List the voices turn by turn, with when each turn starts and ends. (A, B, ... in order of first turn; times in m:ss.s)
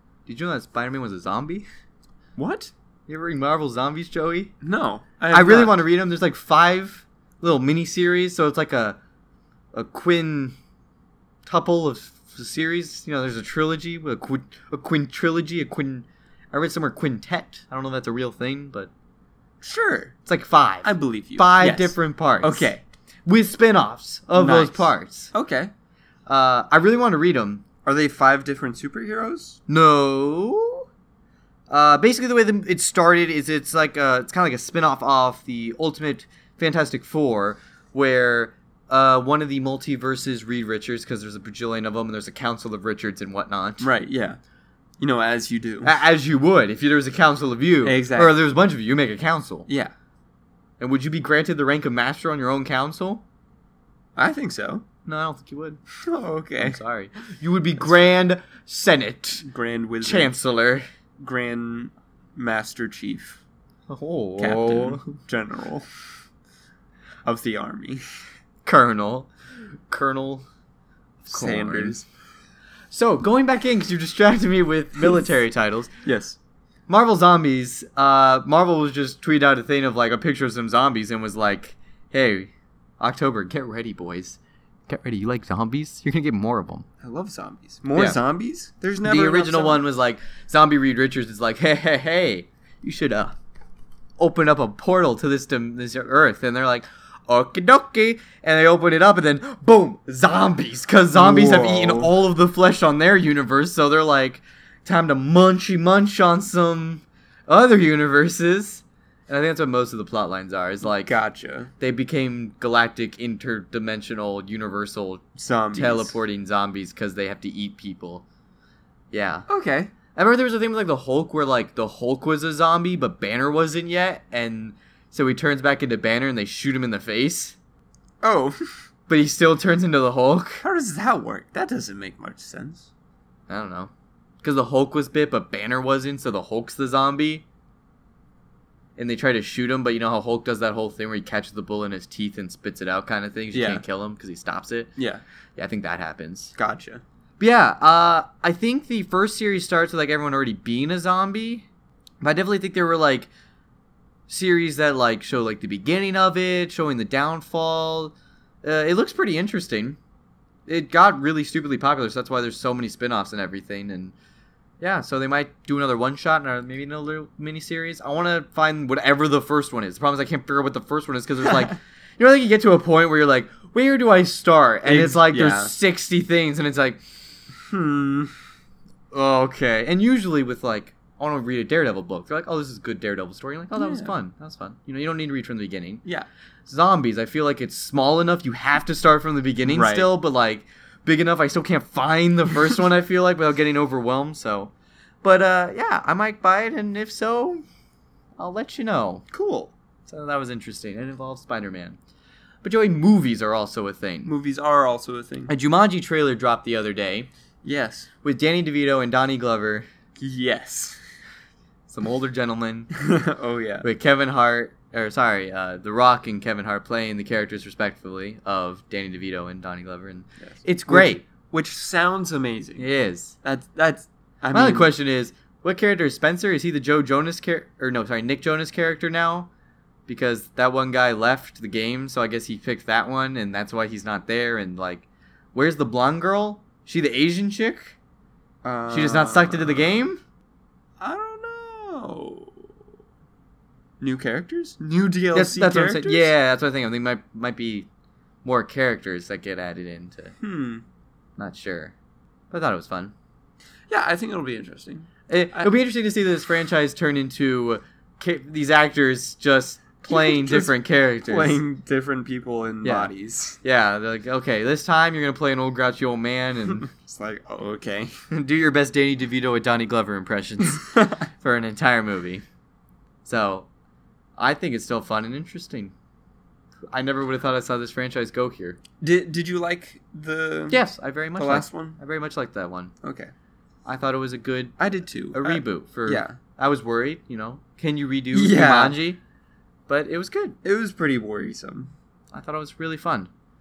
0:00.2-0:01.7 A
0:02.4-0:02.7 B
0:03.1-0:04.5 A
0:04.6-0:05.8 B
0:05.3-0:09.0 A
0:09.7-0:10.6 A
0:11.5-0:18.9 A
0:19.6-0:20.1 B
0:20.2-0:22.7 A
0:20.8-0:22.8 B
0:23.2-0:25.3 A
0:24.4-0:25.7 B
0:26.3-0:27.6 A
0:27.8-0:29.6 B
0:29.7-0:30.9 A
0:31.7-0:43.9 A
0:43.8-0:44.4 B
0:45.0-0:45.9 B
0:45.8-0:49.7 A
0:47.8-0:48.3 B
0:50.8-0:53.2 A
0:54.2-0:54.8 B
0:55.1-0:55.8 A
0:56.0-0:56.8 B
0:56.6-0:59.5 A
0:59.4-1:00.3 B
1:00.0-1:00.8 A
1:01.2-1:03.4 B
1:03.9-1:05.2 A
1:04.4-1:05.9 B
1:07.2-1:08.0 B
1:08.6-1:09.3 A
1:09.9-1:10.4 A
1:11.2-1:12.0 A
1:11.3-1:12.0 B
1:12.9-1:15.9 A
1:16.0-1:16.4 B
1:16.9-1:26.9 A
1:27.0-1:29.8 B
1:29.0-1:33.4 A
1:34.2-1:51.2 A
1:41.1-1:42.1 B
1:50.8-1:51.7 B
1:51.8-1:58.2 A
1:55.4-1:56.2 B
1:59.1-1:59.5 A
1:59.5-1:59.9 B
2:00.2-2:07.6 A
2:08.2-2:08.7 B
2:09.1-2:10.6 A
2:10.6-2:12.9 B
2:13.5-2:13.9 A
2:14.4-2:17.4 A
2:19.0-2:24.9 A
2:23.5-2:23.8 B
2:25.0-2:25.2 B
2:25.6-2:26.5 A
2:26.6-2:27.0 B
2:27.4-2:31.7 A
2:32.2-2:33.3 A
2:34.3-2:40.0 A
2:40.7-2:44.1 A
2:44.8-2:57.0 A
2:54.8-2:55.7 B
2:57.7-2:58.3 B
2:59.1-3:06.0 A
3:03.8-3:04.1 B
3:06.7-3:14.7 A
3:09.7-3:10.1 B
3:15.2-3:17.6 A
3:18.4-3:19.2 A
3:19.3-3:19.7 B
3:20.1-3:22.0 A
3:22.6-3:24.3 A
3:24.2-3:25.5 B
3:25.5-3:27.3 A
3:27.6-3:28.1 B
3:28.2-3:29.9 A
3:30.2-3:31.0 B
3:31.9-3:32.9 A
3:32.9-3:33.9 B
3:33.8-3:41.2 A
3:40.4-3:42.9 B
3:42.8-3:43.3 A
3:43.4-3:44.9 B
3:44.5-3:49.5 A
3:50.1-3:58.0 A
3:58.6-4:00.1 B
3:58.9-4:00.2 A
4:01.0-4:02.7 B
4:04.0-4:06.3 B
4:05.3-4:07.9 A
4:08.4-4:10.3 A
4:10.4-4:10.8 B
4:11.4-4:11.9 A
4:12.5-4:13.1 A
4:13.9-4:15.7 B
4:15.3-4:21.6 A
4:20.1-4:20.8 B
4:21.2-4:23.6 B
4:22.8-4:26.9 A
4:26.8-4:28.1 B
4:28.3-4:32.4 A
4:33.2-4:33.7 A
4:34.4-4:35.9 A
4:36.9-4:38.8 A
4:39.0-4:40.8 B
4:40.7-4:42.9 A
4:41.4-4:42.0 B
4:43.0-4:43.3 B
4:43.9-4:49.2 A
4:44.8-4:46.4 B
4:48.3-4:49.0 B
4:49.9-4:50.6 A
4:50.6-4:51.9 B
4:52.3-4:53.3 A